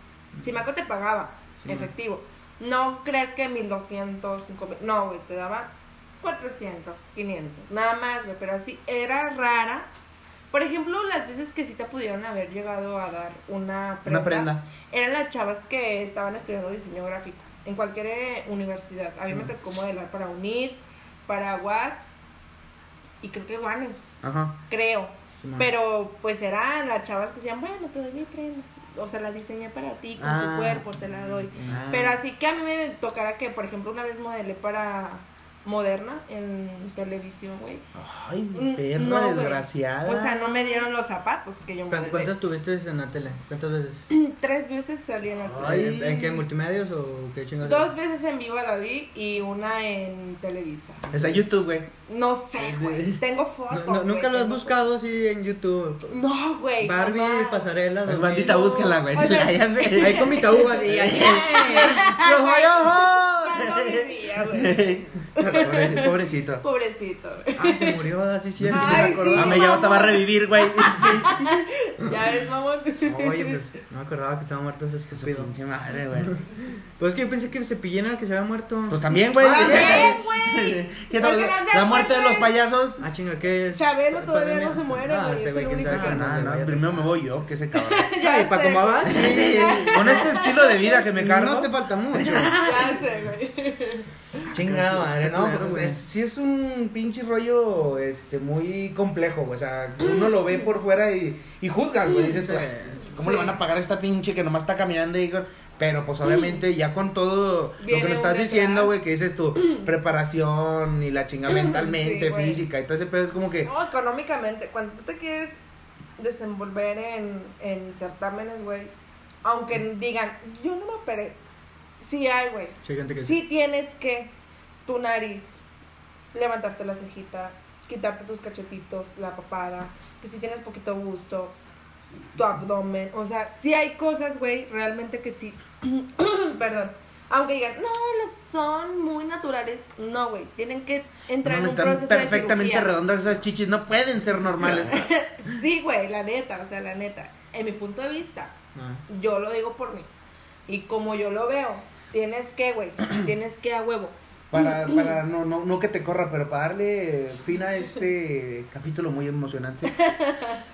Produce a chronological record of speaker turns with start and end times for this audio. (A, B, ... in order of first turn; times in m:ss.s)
0:00.4-0:05.7 A
0:01.6-0:01.9 B
0:06.2-0:09.9 A
0:10.5-0:22.0 A
0:14.0-0:14.6 C
0:23.2-0:24.0 A
0:24.2-0:24.6 C
0:24.7-0:37.8 A
0:25.4-0:25.7 B
0:30.2-0:30.9 C
0:31.3-0:31.8 B
0:31.7-0:32.2 C
0:37.9-0:40.7 C
0:38.5-0:42.3 A
0:41.9-0:44.1 B
0:44.1-0:45.8 A
0:45.4-0:46.4 C
0:45.6-0:47.9 B
0:47.6-0:51.0 A
0:51.0-0:51.4 B
0:51.1-0:51.9 C
0:52.1-0:54.8 A
0:52.6-0:53.2 C
0:53.7-0:56.2 B
0:56.1-0:57.7 A
0:56.8-0:58.6 B
0:58.0-1:06.6 C
0:58.3-1:08.1 A
1:00.0-1:02.0 B
1:07.6-1:09.7 B
1:08.6-1:11.6 C
1:08.7-1:13.6 A
1:13.0-1:15.5 B
1:15.1-1:16.3 C
1:17.0-1:20.2 B
1:18.9-1:23.0 C
1:19.4-1:22.5 A
1:23.0-1:27.1 B
1:23.8-1:26.3 A
1:25.8-1:28.1 C
1:27.7-1:31.0 A
1:28.2-1:32.5 B
1:29.0-1:33.0 C
1:32.6-1:34.0 A
1:34.5-1:36.0 B
1:34.5-1:53.7 C
1:40.0-1:40.6 A
1:42.2-1:43.2 B
1:43.2-1:43.6 A
1:46.2-1:46.6 A
1:47.8-1:49.0 A
1:49.6-1:49.9 A
1:51.5-1:52.6 A
1:53.6-1:55.6 A
1:56.2-1:58.9 A
1:59.4-2:01.4 A
2:02.0-2:04.3 A
2:02.8-2:03.4 B
2:04.8-2:05.6 A
2:06.3-2:11.5 A
2:12.3-2:22.9 A
2:21.4-2:25.1 C
2:24.6-2:28.5 A
2:28.7-2:29.0 B
2:29.1-2:30.1 A
2:30.7-2:35.1 A
2:34.5-2:40.0 C
2:39.9-2:40.6 A